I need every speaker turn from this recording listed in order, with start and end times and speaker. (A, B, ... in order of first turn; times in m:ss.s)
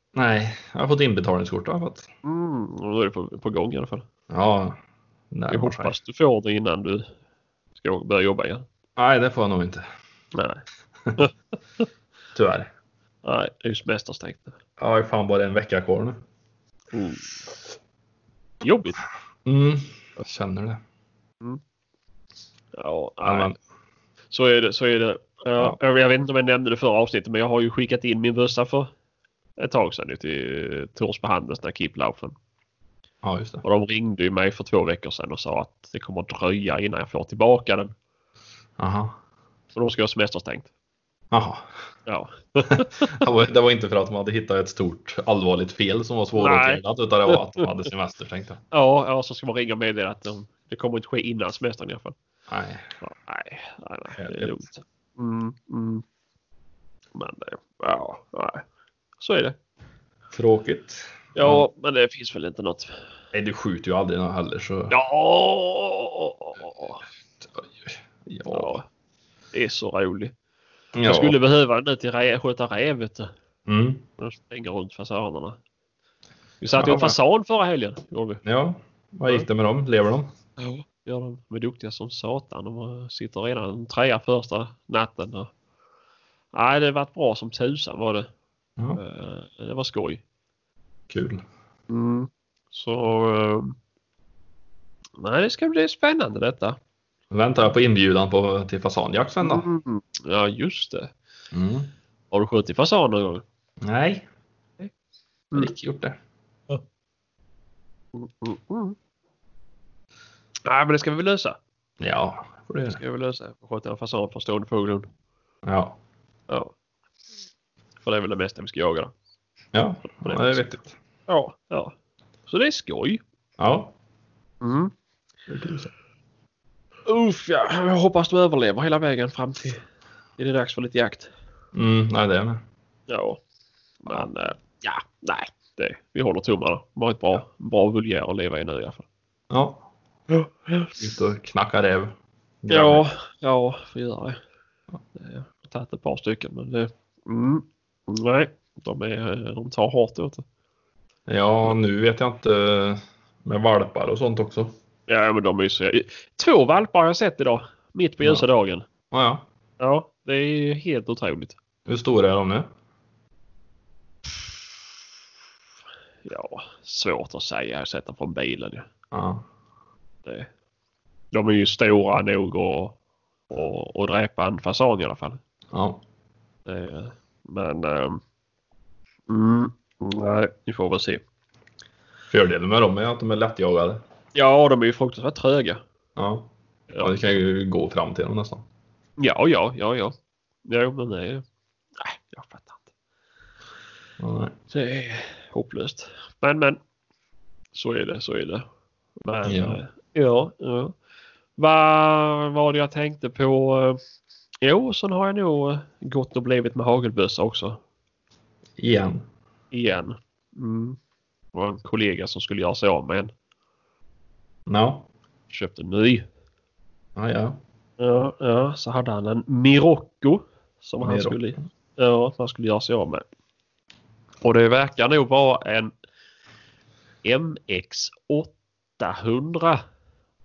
0:00.2-0:02.1 A
0:02.2-0:04.0 B
0:04.3-0:04.8 A
0:05.3-0:06.0 A
0:05.5-0:07.1 B
0:07.8-0:08.6 B
0:09.0-0:09.8 A
0:10.3-0:10.6 B
0:12.3-0:12.7 A
0:13.2-0:14.5 B
0:14.8-0:16.2 A
0:16.9-0:17.5 B
0:18.6-0:19.0 B
0:19.4-0:20.8 A
0:22.8-0:23.6 B
0:23.2-0:23.6 A
0:24.3-0:28.9 B
0:29.6-0:32.4 B
0:33.2-0:33.6 A
0:33.6-0:37.9 B
0:38.8-0:39.2 A
0:39.8-0:40.7 B
0:41.3-0:41.7 A
0:42.1-0:43.1 B
0:42.7-0:48.6 A
0:46.4-0:46.8 B
0:48.7-0:52.2 B
0:52.5-0:52.9 A
0:53.0-0:56.0 B
0:54.2-0:54.6 A
0:57.2-0:58.6 B
0:59.2-0:59.6 B
1:00.3-1:01.7 A
1:01.4-1:03.0 B
1:03.3-1:05.0 A
1:04.9-1:07.0 B
1:07.4-1:08.8 A
1:08.5-1:08.8 B
1:09.5-1:10.3 B
1:10.9-1:11.4 A
1:11.1-1:13.3 B
1:13.7-1:14.0 A
1:14.2-1:15.6 B
1:16.6-1:18.4 B
1:16.8-1:17.2 A
1:18.4-1:20.3 A
1:20.6-1:25.5 B
1:26.5-1:28.3 B
1:29.0-1:30.2 B
1:31.1-1:31.4 A
1:31.9-1:33.8 B
1:35.2-1:36.8 B
1:37.3-1:39.7 A
1:39.4-1:41.1 B
1:41.5-1:41.9 A
1:42.3-1:43.4 B
1:43.8-1:44.3 A
1:45.5-1:46.2 A
1:48.2-1:49.0 B
1:50.7-1:51.6 B
1:52.0-1:53.0 A
1:53.0-1:55.1 B
1:55.6-1:56.0 A
1:58.0-1:59.1 B
1:59.7-2:00.9 A
2:00.2-2:00.6 B
2:01.3-2:01.9 B
2:02.5-2:03.2 B
2:03.6-2:03.9 A
2:04.6-2:04.9 B
2:05.5-2:05.9 A
2:07.1-2:09.8 B
2:10.4-2:11.3 B
2:11.7-2:12.6 A
2:13.1-2:13.4 B
2:14.0-2:19.1 B
2:19.5-2:19.8 A
2:20.3-2:21.0 B
2:21.0-2:23.0 A
2:22.7-2:24.4 B
2:25.2-2:30.4 B
2:31.3-2:34.7 A
2:35.1-2:38.8 B
2:39.1-2:39.4 A
2:39.8-2:41.6 B
2:41.9-2:42.7 A
2:46.2-2:48.9 B
2:49.1-2:49.4 A
2:51.3-2:53.0 B
2:53.5-2:55.4 B
2:55.7-2:56.0 A
2:56.7-2:58.2 B
2:59.3-3:01.2 B
3:02.3-3:04.0 A
3:04.4-3:05.8 B
3:06.2-3:06.5 A
3:07.0-3:08.6 A
3:09.2-3:11.4 B
3:12.0-3:12.8 B
3:14.2-3:14.6 A
3:14.7-3:16.8 B
3:17.7-3:18.7 B
3:19.2-3:21.0 B
3:19.5-3:19.8 A
3:21.6-3:24.0 B
3:24.6-3:27.8 B
3:28.8-3:29.2 A
3:29.7-3:31.0 B
3:31.5-3:33.3 B
3:34.7-3:35.1 A
3:35.5-3:36.2 B
3:37.2-3:37.6 A
3:38.0-3:43.2 B
3:41.0-3:41.4 A
3:44.4-3:45.9 B
3:47.2-3:49.8 B